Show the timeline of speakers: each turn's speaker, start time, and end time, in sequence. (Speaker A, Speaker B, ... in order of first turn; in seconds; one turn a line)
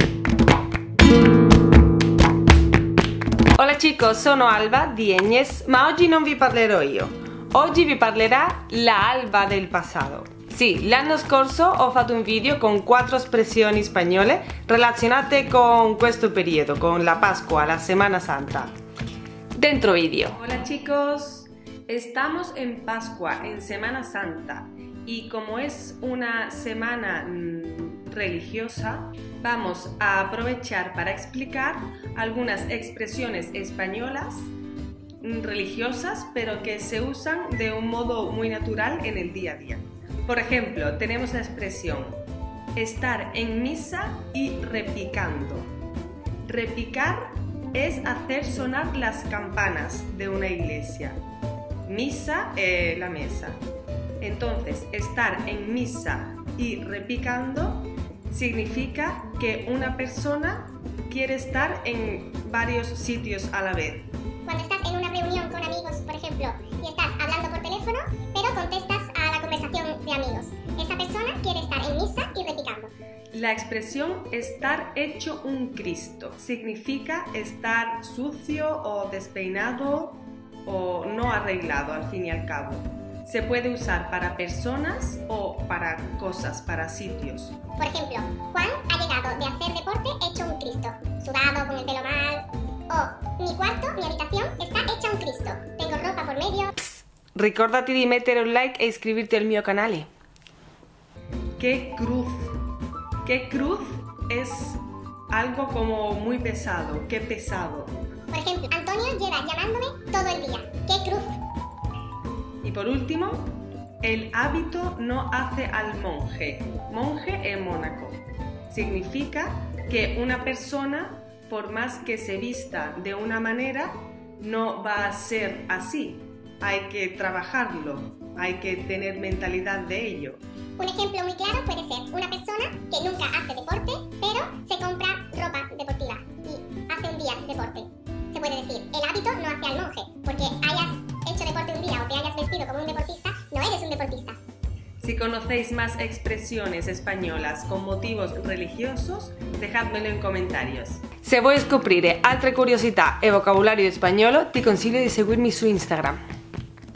Speaker A: 3.5-18.7
Speaker A: 19.5-34.5
Speaker A: 35.2-42.2
Speaker A: 42.8-45.7
Speaker A: 46.4-51.2
Speaker A: 51.8-53.6
Speaker A: 54.2-64.1
Speaker B: 64.5-72.9
Speaker A: 73.3-87.6
Speaker B: 87.8-96.7
Speaker A: 96.8-100.1
Speaker A: 101.6-102.5
Speaker A: 103.2-107.9
Speaker B: 108.3-111.4
Speaker A: 112.6-130.4
Speaker B: 130.8-144.4
Speaker A: 145.0-156.2